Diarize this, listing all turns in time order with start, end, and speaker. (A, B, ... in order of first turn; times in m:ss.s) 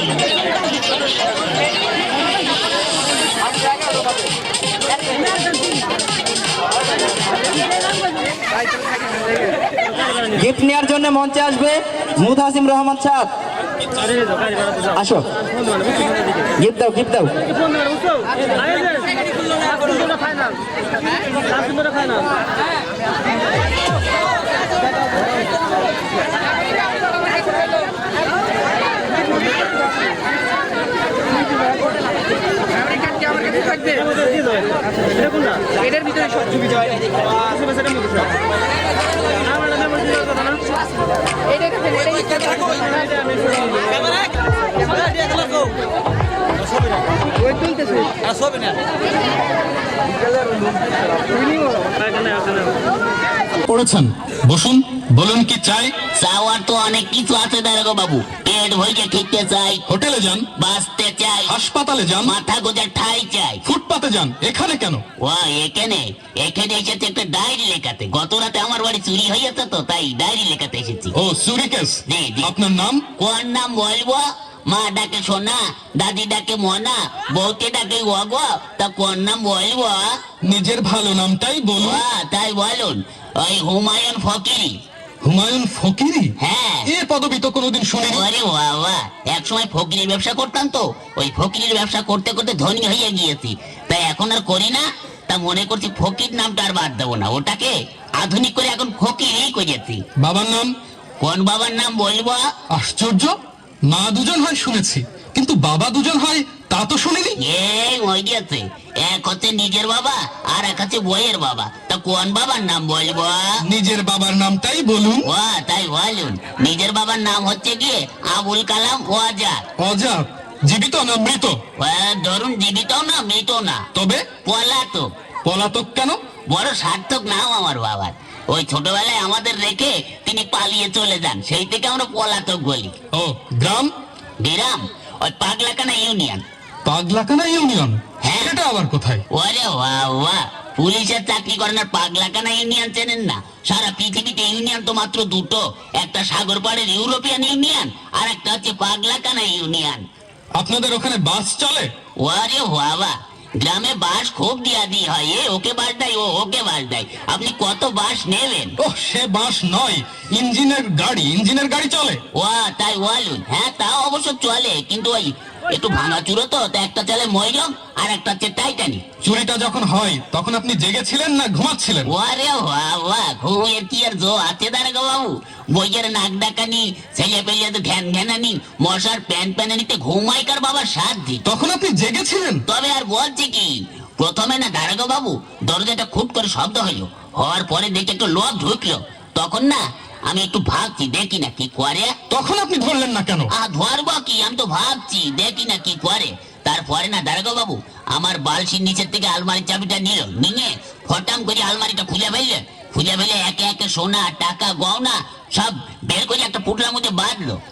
0:10.3-0:13.3 A
0:15.0-0:15.2 A
0:16.6-0:17.3 A
0:53.7-0:55.9 B
0:56.2-0:59.8 C
0:59.9-1:00.5 B
1:00.6-1:01.5 C
1:01.5-1:02.3 B
1:02.2-1:03.6 C
1:03.6-1:05.0 B
1:05.2-1:11.1 C
1:11.1-1:13.0 B
1:12.1-1:12.5 C
1:13.2-1:20.1 C
1:20.4-1:22.0 B
1:21.8-1:24.7 C
1:25.2-1:26.3 B
1:26.4-1:26.8 C
1:26.8-1:28.2 B
1:28.1-1:40.0 C
1:40.2-1:40.7 B
1:41.2-1:42.4 C
1:42.7-1:43.3 B
1:43.9-1:47.4 B
1:47.4-1:53.4 C
1:53.7-1:55.3 B
1:55.2-1:59.6 C
1:59.8-2:01.6 B
2:01.8-2:03.8 C
2:03.9-2:04.2 B
2:04.5-2:05.0 C
2:05.4-2:06.2 B
2:06.5-2:12.9 C
2:13.1-2:13.9 B
2:14.4-2:16.4 C
2:16.8-2:19.2 B
2:18.2-2:18.5 C
2:19.3-2:30.0 C
2:30.6-2:31.9 B
2:32.2-2:38.7 C
2:38.8-2:42.2 B
2:42.4-2:49.0 C
2:49.2-2:52.1 B
2:52.1-3:01.4 C
3:01.4-3:02.6 B
3:02.7-3:12.1 C
3:12.3-3:13.5 B
3:13.6-3:27.6 C